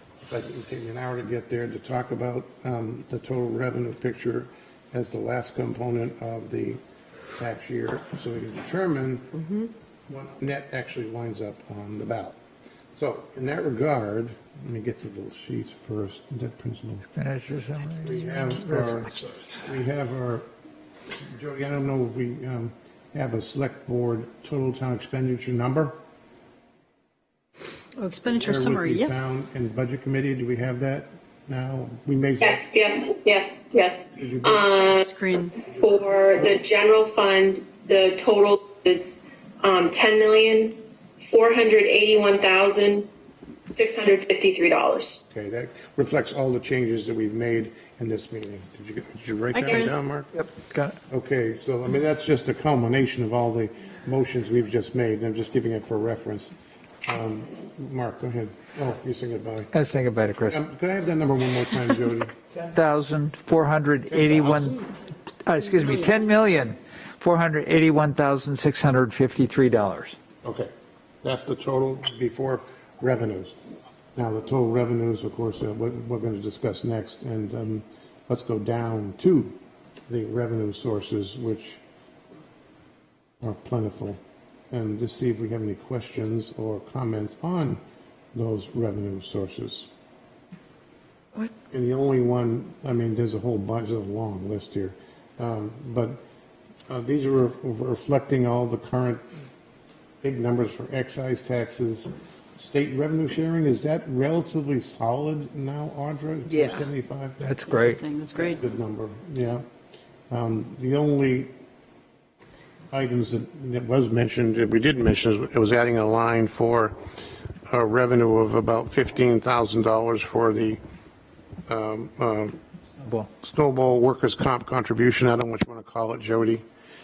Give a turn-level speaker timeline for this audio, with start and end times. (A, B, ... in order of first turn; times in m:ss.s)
0:00.2-0:06.8 A
0:07.4-0:09.5 A
0:10.1-0:12.4 A
0:12.9-0:17.1 A
0:17.2-0:19.4 B
0:18.0-0:20.4 A
0:21.2-0:26.0 A
0:28.0-0:29.4 C
0:28.2-0:32.6 A
0:32.4-0:43.1 D
0:34.2-0:34.8 A
0:35.1-0:35.6 C
0:35.6-0:36.0 A
0:43.7-0:45.2 D
0:45.3-0:50.3 A
0:50.3-0:51.0 B
0:51.1-0:56.5 A
0:57.0-0:59.7 A
0:59.7-1:00.6 B
1:00.5-1:02.3 A
1:02.7-1:04.9 B
1:04.1-1:04.8 A
1:05.4-1:10.2 B
1:10.4-1:10.7 A
1:11.2-1:13.5 A
1:14.2-1:19.6 A
1:20.1-1:21.8 A
1:23.4-1:24.2 A
1:24.7-1:27.8 A
1:28.3-1:29.9 A
1:31.7-1:36.2 A
1:36.9-1:39.2 A
1:40.2-1:47.4 A
1:46.5-1:46.9 C
1:47.4-1:48.0 B
1:47.7-1:48.6 C
1:48.3-1:49.6 A
1:50.3-1:51.5 A
1:52.9-1:57.0 A
1:57.7-2:00.8 A
2:01.7-2:02.6 A
2:03.0-2:03.3 B
2:03.4-2:06.6 A